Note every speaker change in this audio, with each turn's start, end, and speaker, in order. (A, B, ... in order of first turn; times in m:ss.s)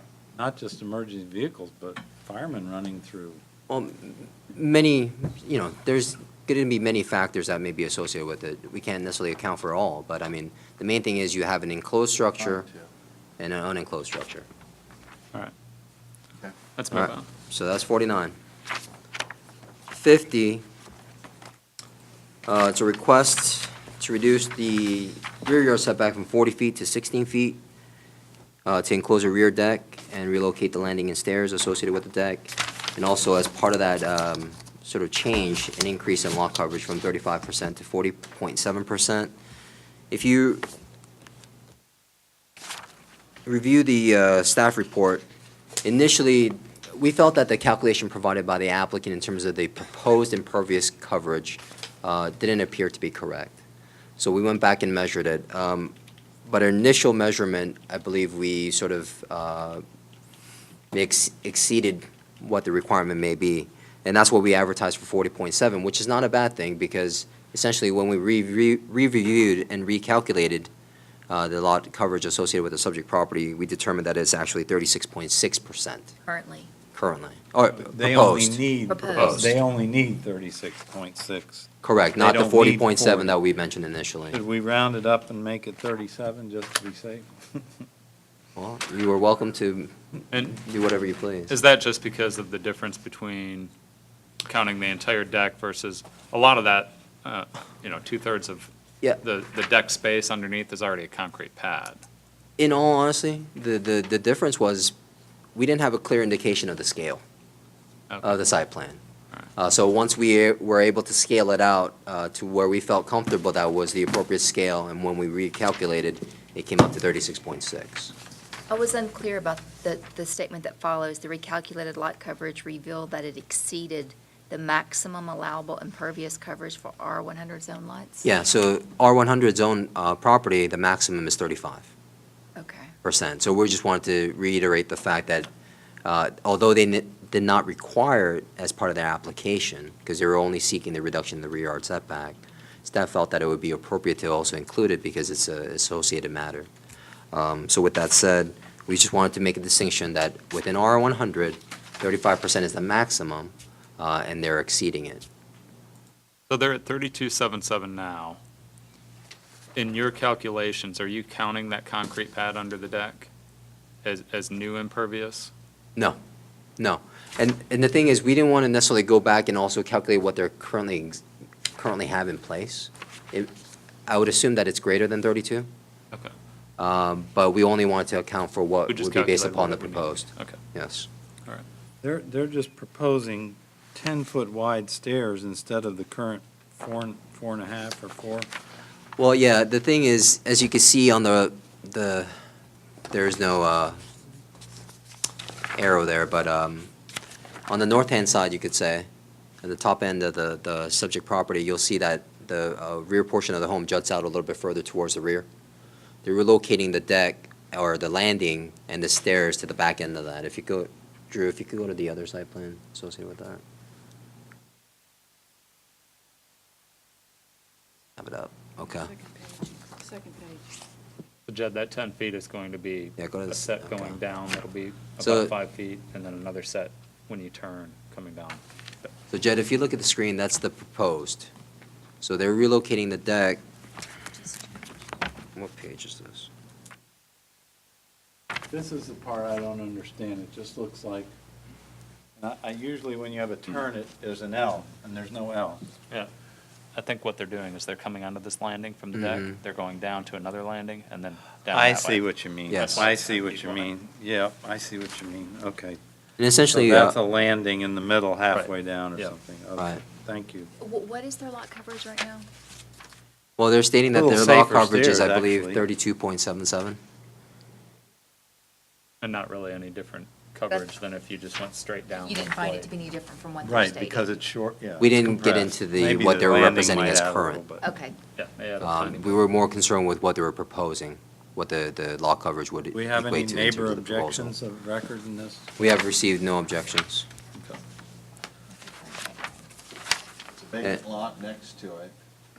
0:00.3-0:03.4 A
0:03.7-0:12.7 B
0:12.5-0:12.9 C
0:13.4-0:14.5 B
0:16.8-0:17.2 D
0:16.9-0:18.4 B
0:19.9-0:20.6 B
0:22.5-0:27.6 B
0:28.6-0:39.3 B
0:40.1-0:40.7 B
0:43.4-0:45.2 B
0:45.8-0:53.6 B
0:54.2-0:55.9 B
0:56.5-0:59.8 B
1:00.9-1:10.7 B
1:11.3-1:16.1 B
1:16.3-1:16.7 E
1:16.9-1:18.6 B
1:17.7-1:23.4 A
1:18.9-1:19.4 E
1:19.2-1:19.5 B
1:19.2-1:19.5 D
1:21.8-1:24.4 B
1:24.3-1:27.8 A
1:28.6-1:29.9 B
1:30.4-1:31.5 B
1:31.5-1:33.7 D
1:34.4-1:38.7 D
1:39.2-1:42.0 D
1:42.6-1:44.9 B
1:45.6-1:47.2 B
1:48.2-1:49.0 B
1:49.6-1:58.1 B
1:58.7-2:08.3 E
2:08.2-2:11.9 B
2:12.6-2:12.9 E
2:13.0-2:15.5 B
2:16.0-2:26.7 B
2:27.3-2:35.2 B
2:36.5-2:38.4 D
2:39.8-2:43.3 D
2:44.0-2:45.5 D
2:46.8-2:51.2 B
2:51.8-2:53.5 B
2:54.1-2:55.7 B
2:56.8-3:01.1 B
2:58.9-3:00.6 D
3:02.0-3:08.5 A
3:09.2-3:12.3 B
3:13.1-3:14.0 B
3:15.8-3:16.9 B
3:17.7-3:19.1 B
3:19.6-3:25.5 B
3:26.2-3:33.6 B
3:38.2-3:39.1 B
3:41.5-3:49.1 D
3:43.2-3:44.2 B
3:45.2-3:45.5 B
3:49.3-3:51.5 B
3:52.2-3:53.6 B
3:55.6-3:56.5 B
3:58.7-4:01.3 A
4:02.4-4:05.8 A
4:06.9-4:13.9 D
4:09.1-4:09.6 B
4:11.7-4:16.0 A
4:12.7-4:13.1 B
4:16.4-4:17.2 B
4:16.7-4:20.7 A
4:18.5-4:19.4 D
4:20.8-4:22.5 E
4:23.6-4:27.0 B
4:24.1-4:25.9 A
4:29.2-4:32.9 D
4:32.2-4:34.3 E
4:33.6-4:37.8 A
4:35.0-4:37.6 B
4:37.8-4:38.2 E
4:38.4-4:39.5 D
4:38.8-4:44.5 B
4:42.9-4:45.7 A
4:45.8-4:47.3 B
4:48.7-4:49.5 E
4:50.6-4:52.1 C